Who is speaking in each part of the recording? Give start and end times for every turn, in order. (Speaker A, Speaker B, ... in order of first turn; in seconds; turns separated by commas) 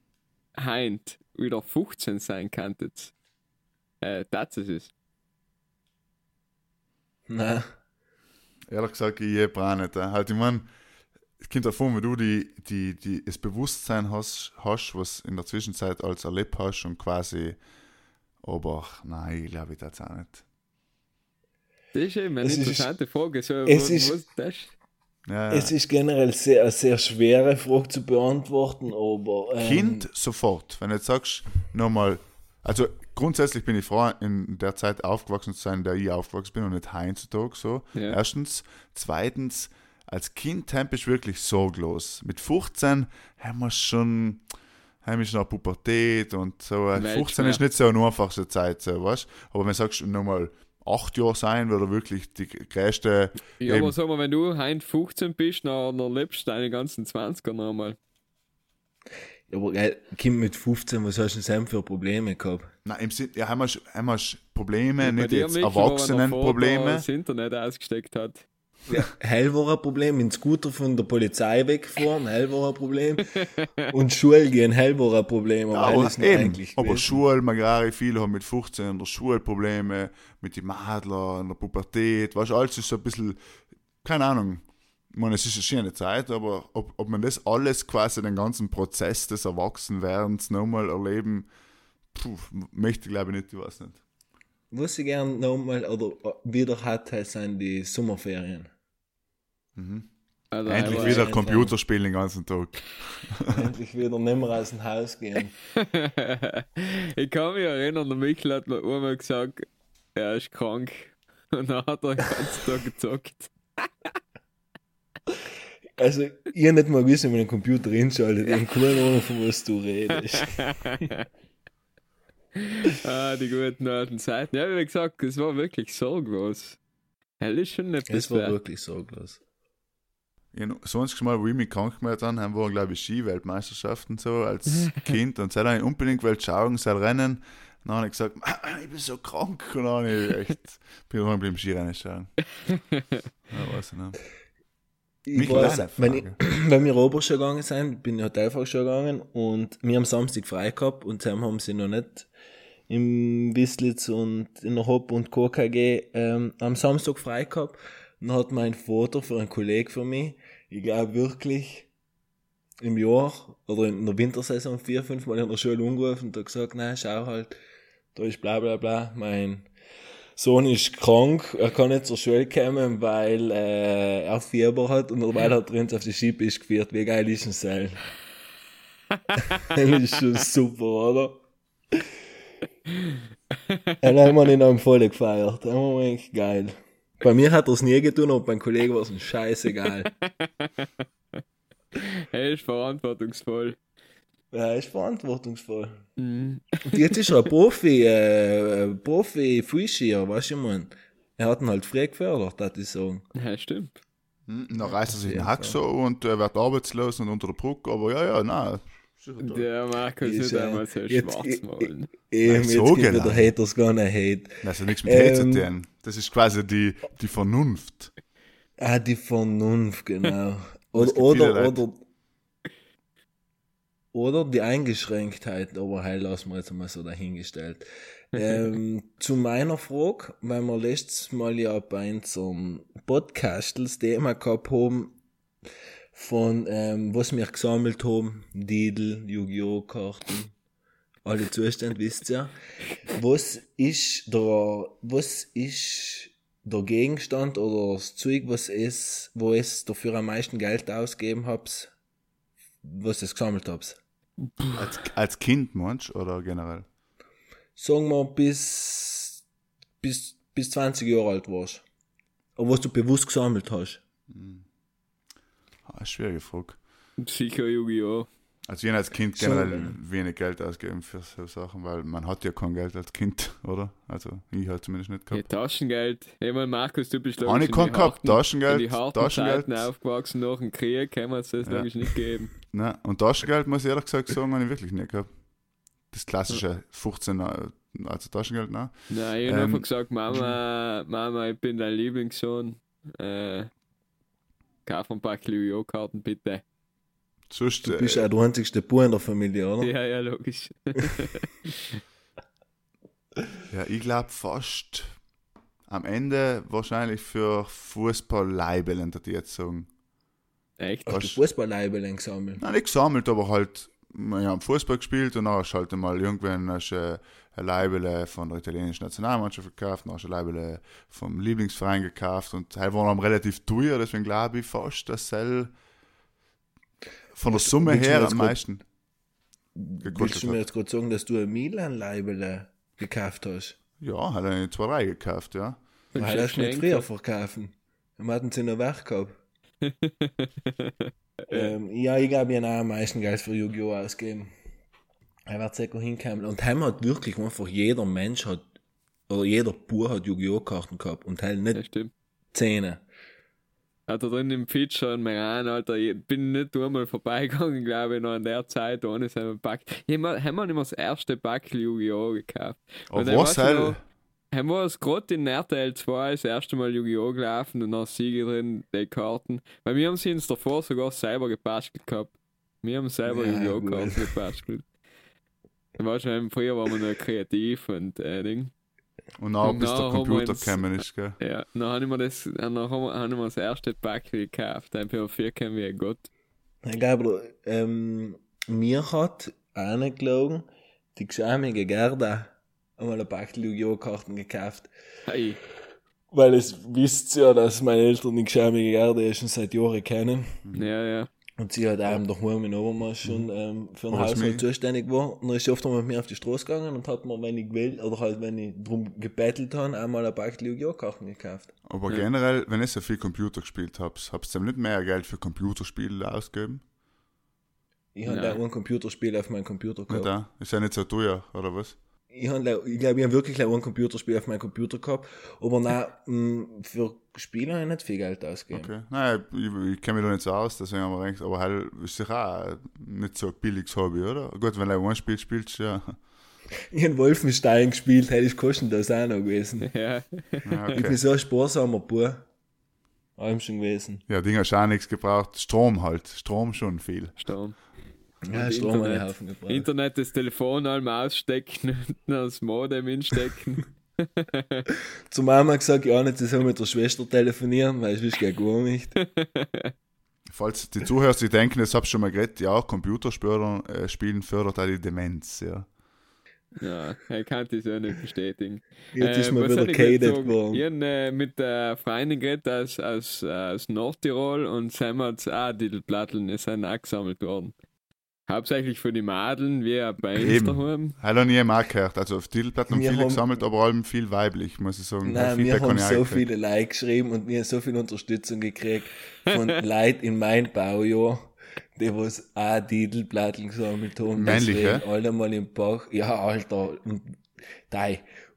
Speaker A: 0.6-3.1, Speaker A: 4.0-4.9, Speaker B: 7.3-7.7, Speaker C: 8.7-10.7, Speaker C: 11.4-17.6, Speaker C: 18.4-20.4, Speaker A: 21.9-24.7, Speaker B: 22.4-22.9, Speaker B: 23.6-24.1, Speaker C: 25.3-25.7, Speaker B: 25.5-30.1, Speaker C: 29.6-44.4, Speaker C: 45.0-53.9, Speaker A: 47.0-47.6, Speaker A: 53.6-58.0, Speaker B: 59.5-62.7, Speaker C: 62.8-67.0, Speaker A: 65.0-68.4, Speaker B: 68.9-73.3, Speaker B: 73.9-77.2, Speaker C: 75.7-83.4, Speaker C: 84.0-91.5, Speaker C: 92.1-94.0, Speaker B: 94.7-98.7, Speaker C: 99.8-100.1, Speaker A: 100.5-101.3, Speaker C: 100.7-103.7, Speaker B: 100.7-101.7, Speaker B: 103.5-105.5, Speaker A: 105.7-109.6, Speaker A: 110.2-113.5, Speaker B: 116.0-120.6, Speaker A: 120.4-121.2, Speaker A: 122.5-126.8, Speaker A: 127.4-128.5, Speaker B: 128.1-129.4, Speaker C: 130.5-142.3, Speaker A: 142.7-143.0, Speaker C: 143.5-144.2, Speaker B: 145.2-152.3, Speaker C: 145.3-146.4, Speaker B: 152.9-161.9, Speaker B: 162.8-167.6, Speaker B: 168.1-169.7, Speaker B: 170.3-178.0, Speaker B: 179.5-181.4, Speaker A: 183.7-183.9, Speaker B: 184.0-190.1, Speaker A: 190.2-190.9, Speaker A: 191.9-193.8, Speaker B: 194.5-196.0, Speaker A: 196.2-197.1, Speaker B: 196.8-203.2, Speaker A: 203.3-204.0, Speaker C: 204.5-209.7, Speaker B: 205.1-205.8, Speaker A: 209.4-212.1, Speaker B: 210.2-215.7, Speaker C: 212.4-213.5, Speaker C: 214.6-218.1, Speaker B: 218.8-222.0, Speaker C: 220.9-221.8, Speaker B: 224.1-235.2, Speaker B: 236.1-240.5, Speaker B: 241.2-242.5, Speaker B: 243.1-251.9, Speaker B: 252.8-254.0, Speaker C: 254.7-256.9, Speaker B: 257.8-259.4, Speaker B: 260.0-261.8, Speaker B: 262.6-264.0, Speaker C: 264.3-264.6, Speaker C: 265.9-266.8, Speaker A: 267.2-268.3, Speaker C: 268.7-275.4, Speaker B: 269.4-270.0, Speaker A: 275.3-282.5, Speaker C: 277.4-279.9, Speaker C: 282.6-285.3, Speaker C: 286.1-290.4, Speaker A: 289.1-293.7, Speaker A: 294.9-296.6, Speaker C: 297.5-298.2, Speaker B: 297.8-299.9, Speaker A: 299.8-302.0, Speaker C: 303.7-305.1, Speaker C: 305.9-309.9, Speaker A: 310.8-311.2, Speaker C: 311.1-311.4, Speaker B: 311.1-312.6, Speaker C: 312.6-325.7, Speaker C: 327.3-328.8, Speaker B: 327.4-328.6, Speaker B: 329.7-333.8, Speaker C: 330.0-330.6, Speaker C: 334.0-335.8, Speaker A: 336.1-337.1, Speaker B: 336.1-339.4, Speaker A: 339.8-341.6, Speaker B: 341.5-344.5, Speaker B: 345.5-348.6, Speaker B: 349.3-351.8, Speaker A: 351.7-352.1, Speaker B: 352.5-353.0, Speaker A: 354.1-364.0, Speaker C: 363.1-364.0, Speaker A: 364.5-374.9, Speaker B: 373.3-374.3, Speaker A: 376.0-378.7, Speaker C: 379.4-381.4, Speaker A: 379.6-380.9, Speaker A: 381.4-386.3, Speaker B: 386.8-394.9, Speaker A: 395.3-395.6, Speaker B: 396.3-400.6, Speaker C: 400.6-400.9, Speaker A: 400.7-401.3, Speaker B: 401.6-411.7, Speaker C: 404.1-404.6, Speaker C: 411.9-416.8, Speaker B: 418.1-420.3, Speaker A: 418.2-418.6, Speaker C: 420.1-421.9, Speaker B: 422.3-428.9, Speaker C: 428.7-436.1, Speaker B: 436.9-439.9, Speaker A: 439.8-440.9, Speaker C: 440.6-441.2, Speaker B: 440.9-442.4, Speaker B: 443.4-444.2, Speaker C: 444.3-447.3, Speaker A: 447.4-447.8, Speaker B: 448.4-449.9, Speaker A: 448.5-454.9, Speaker B: 455.3-459.1, Speaker A: 459.2-459.9, Speaker C: 460.5-465.9, Speaker A: 466.8-477.7, Speaker B: 469.1-470.8, Speaker A: 478.5-481.1, Speaker C: 480.4-486.4, Speaker B: 482.9-483.4, Speaker B: 485.2-498.2, Speaker C: 494.3-495.0